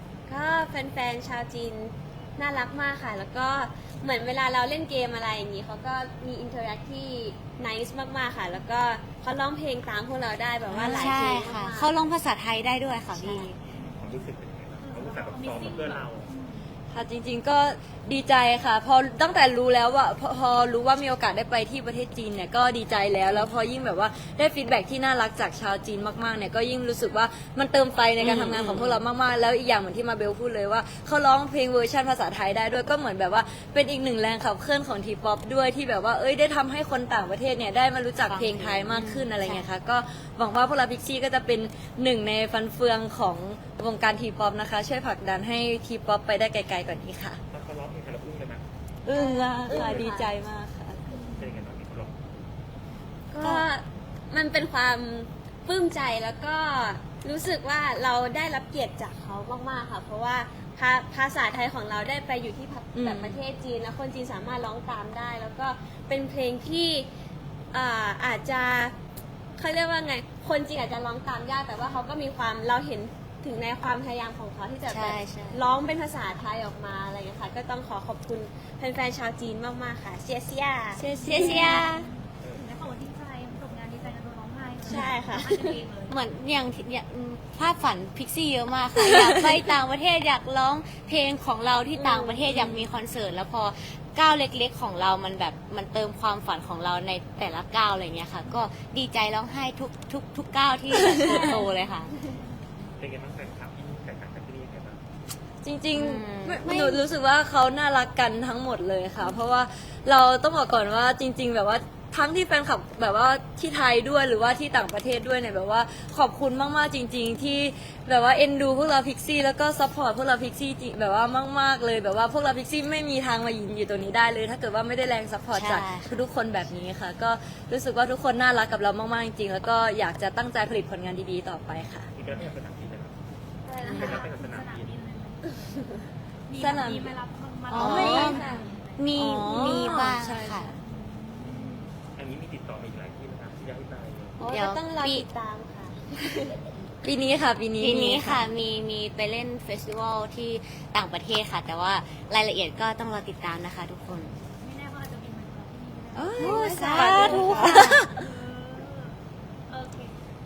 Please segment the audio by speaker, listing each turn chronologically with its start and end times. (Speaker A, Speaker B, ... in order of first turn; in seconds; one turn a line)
Speaker A: 0.3-12.0
Speaker B: 10.7-13.6
Speaker A: 13.1-13.5
Speaker C: 13.6-16.3
Speaker D: 14.8-16.7
Speaker E: 16.9-47.4
Speaker B: 28.2-29.0
Speaker B: 38.3-39.7
Speaker C: 47.5-48.6
Speaker E: 49.0-51.0
Speaker A: 49.1-50.3
Speaker C: 49.7-50.1
Speaker C: 51.4-52.4
Speaker A: 53.3-67.1
Speaker E: 53.4-53.7
Speaker E: 62.9-63.4
Speaker A: 67.7-68.9
Speaker A: 69.6-81.9
Speaker B: 74.9-75.7
Speaker B: 81.0-82.0
Speaker D: 81.1-86.2
Speaker E: 81.3-81.8
Speaker C: 82.4-82.8
Speaker A: 84.8-85.7
Speaker B: 86.1-102.2
Speaker E: 89.0-89.6
Speaker A: 91.9-92.5
Speaker E: 92.5-92.8
Speaker E: 100.9-101.3
Speaker D: 101.3-101.9
Speaker C: 103.0-105.0
Speaker E: 105.6-132.1
Speaker B: 105.9-106.7
Speaker A: 106.4-107.0
Speaker B: 125.5-126.2
Speaker C: 132.1-133.2
Speaker A: 133.7-134.2
Speaker C: 133.8-135.0
Speaker D: 133.9-139.1
Speaker E: 136.5-137.2
Speaker B: 137.7-140.7
Speaker E: 137.8-138.3
Speaker A: 138.2-138.7
Speaker E: 139.1-140.8
Speaker D: 140.8-141.9
Speaker C: 141.4-144.4
Speaker A: 144.4-146.6
Speaker B: 144.5-145.3
Speaker E: 147.0-148.5
Speaker B: 147.8-154.3
Speaker D: 154.6-156.4
Speaker E: 156.1-158.2
Speaker B: 156.4-158.1
Speaker A: 156.7-157.8
Speaker D: 158.2-159.2
Speaker D: 159.7-160.2